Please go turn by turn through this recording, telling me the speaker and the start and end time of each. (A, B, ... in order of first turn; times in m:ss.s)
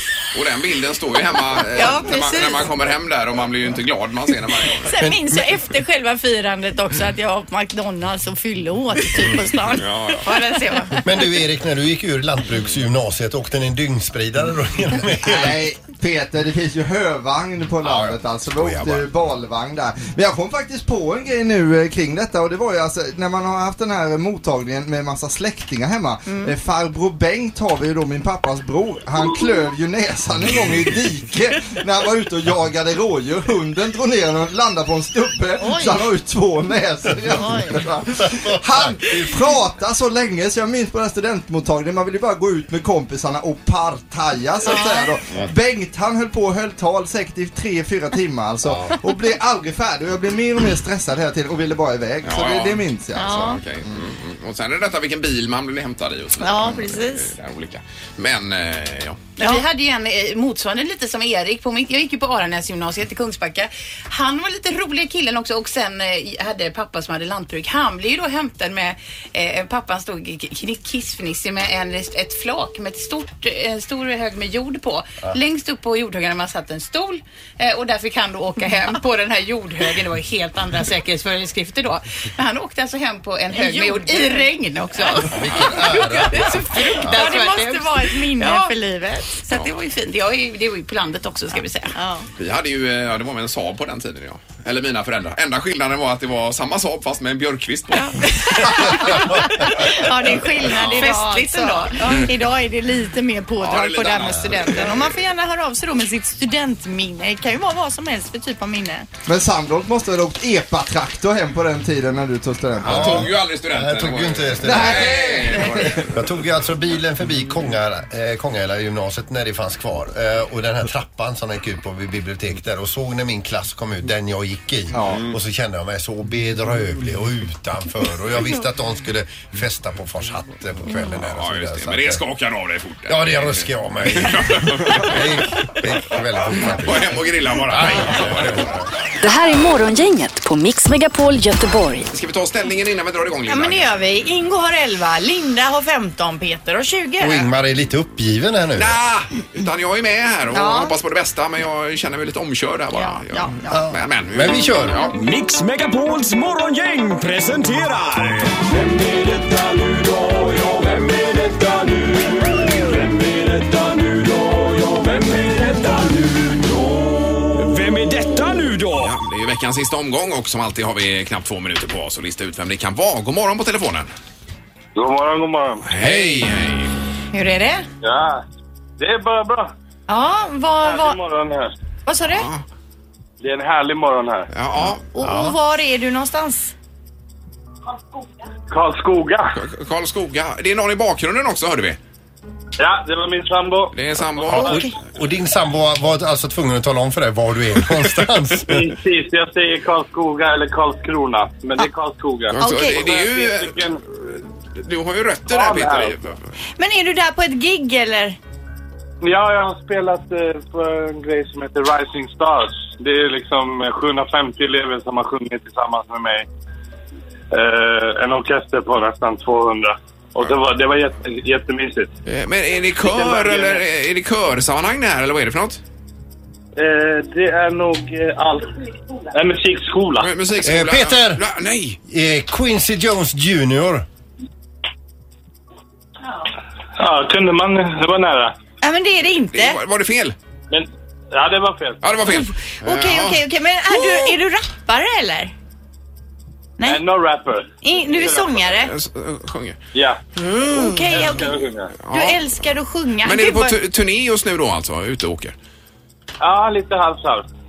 0:00.3-0:04.9 A
0:01.7-0:02.7 B
0:04.8-0:11.0 B
0:05.0-0:05.4 C
0:09.7-0:10.3 A
0:11.0-0:15.6 C
0:15.2-0:53.5 D
0:18.6-0:18.9 A
0:26.2-0:26.5 B
0:35.6-0:36.0 B
0:37.3-0:37.8 B
0:38.2-0:39.4 C
0:44.6-0:45.1 B
0:52.2-0:59.3 A
0:53.2-0:53.6 B
0:56.4-0:57.3 B
0:59.4-1:28.8 E
0:59.4-0:59.6 B
1:23.5-1:29.4 B
1:25.3-1:26.5 C
1:29.4-1:31.9 E
1:31.9-1:32.3 B
1:32.4-1:39.1 A
1:38.2-1:49.1 B
1:40.7-1:42.3 E
1:43.6-1:45.1 A
1:49.3-1:53.3 D
1:52.8-2:12.2 C
1:52.8-1:56.3 A
1:54.6-1:55.6 D
2:05.1-2:05.3 A
2:11.0-2:15.7 A
2:13.1-2:18.9 C
2:16.5-2:18.8 A
2:19.2-2:22.1 F
2:22.1-2:23.9 A
2:23.5-2:27.5 B
2:27.2-2:29.0 C
2:28.8-2:35.2 A
2:30.5-2:30.9 B
2:32.9-2:33.8 B
2:33.7-2:35.0 C
2:35.1-2:49.1 G
2:49.0-2:54.1 A
2:54.9-2:56.0 H
2:55.8-2:56.9 A
2:57.3-2:57.8 B
2:58.0-2:58.4 H
2:59.0-2:59.7 H
3:00.1-3:01.2 B
3:00.8-3:01.7 H
3:02.0-3:02.5 B
3:02.4-3:02.6 A
3:03.4-3:04.5 H
3:04.5-3:05.0 A
3:05.1-3:06.7 B
3:05.2-3:05.6 C
3:08.7-3:09.6 H
3:09.5-3:12.0 A
3:12.8-3:13.9 H
3:13.9-3:14.8 A
3:14.5-3:18.9 C
3:14.6-3:14.9 B
3:18.6-3:24.0 H
3:22.5-3:26.4 A
3:22.6-3:23.0 B
3:25.5-3:26.2 H
3:26.8-3:28.4 B
3:29.2-3:36.5 H
3:37.5-3:42.1 H
3:42.2-3:45.8 A
3:43.0-3:43.8 H
3:46.8-3:48.8 H
3:49.3-3:50.3 H
3:50.2-3:52.0 A
3:50.6-3:51.4 C
3:52.0-3:54.0 C
3:57.0-3:58.5 H
3:58.8-3:59.8 B
3:59.5-4:00.4 A
4:00.7-4:02.0 H
4:02.0-4:03.4 A
4:02.3-4:05.5 B
4:06.8-4:08.5 H
4:07.8-4:08.9 B
4:08.7-4:09.8 A
4:09.9-4:11.9 H
4:10.6-4:13.7 B
4:12.0-4:12.4 A
4:13.2-4:15.5 A
4:16.4-4:17.5 H